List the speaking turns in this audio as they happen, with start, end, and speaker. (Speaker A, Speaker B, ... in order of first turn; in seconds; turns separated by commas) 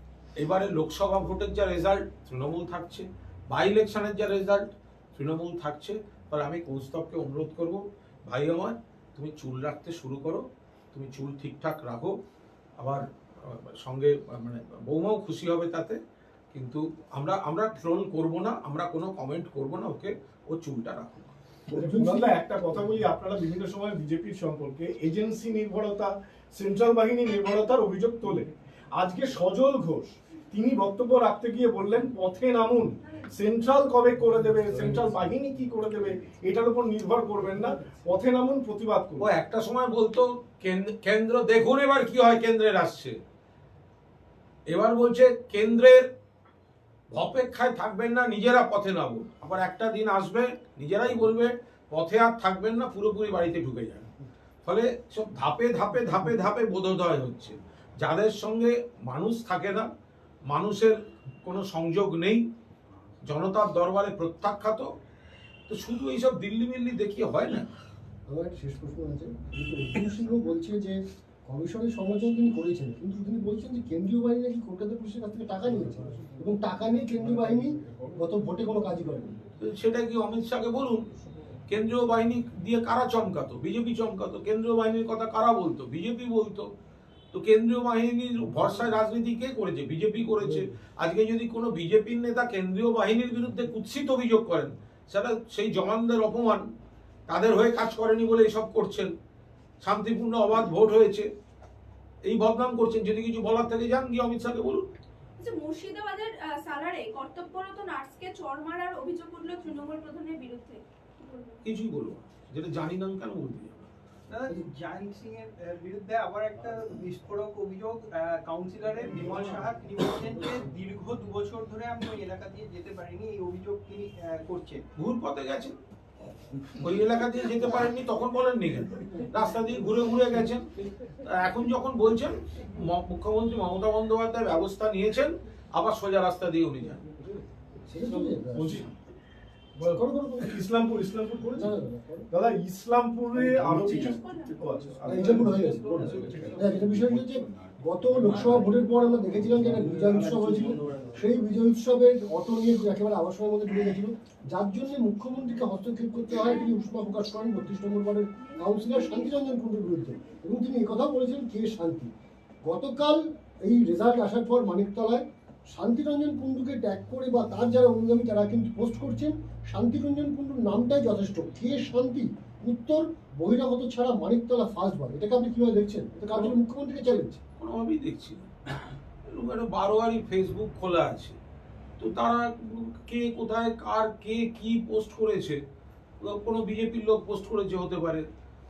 Speaker A: 0.4-12.2, Speaker A: 12.8-16.0, Speaker A: 16.5-21.4, Speaker B: 21.7-39.3, Speaker C: 21.7-22.3, Speaker D: 33.0-33.3, Speaker A: 39.2-43.2, Speaker A: 44.7-46.1, Speaker A: 47.1-54.1, Speaker A: 54.6-59.9, Speaker A: 60.5-62.5, Speaker A: 63.2-64.9, Speaker A: 65.7-67.7, Speaker C: 68.3-79.4, Speaker A: 79.6-81.1, Speaker A: 81.7-86.7, Speaker A: 87.3-96.7, Speaker A: 97.3-99.1, Speaker A: 99.8-101.3, Speaker A: 102.2-104.9, Speaker D: 105.4-111.6, Speaker A: 111.6-113.9, Speaker E: 114.3-124.8, Speaker A: 125.0-125.8, Speaker A: 126.7-137.2, Speaker C: 137.9-138.9, Speaker B: 138.5-138.9, Speaker B: 139.8-141.8, Speaker C: 139.8-140.6, Speaker C: 141.5-142.3, Speaker B: 142.3-146.8, Speaker C: 143.3-144.1, Speaker D: 144.0-144.6, Speaker C: 145.1-162.1, Speaker B: 149.9-151.0, Speaker D: 156.3-157.0, Speaker D: 158.4-159.4, Speaker C: 162.6-177.4, Speaker A: 177.6-181.4, Speaker A: 182.0-185.6, Speaker A: 186.2-188.3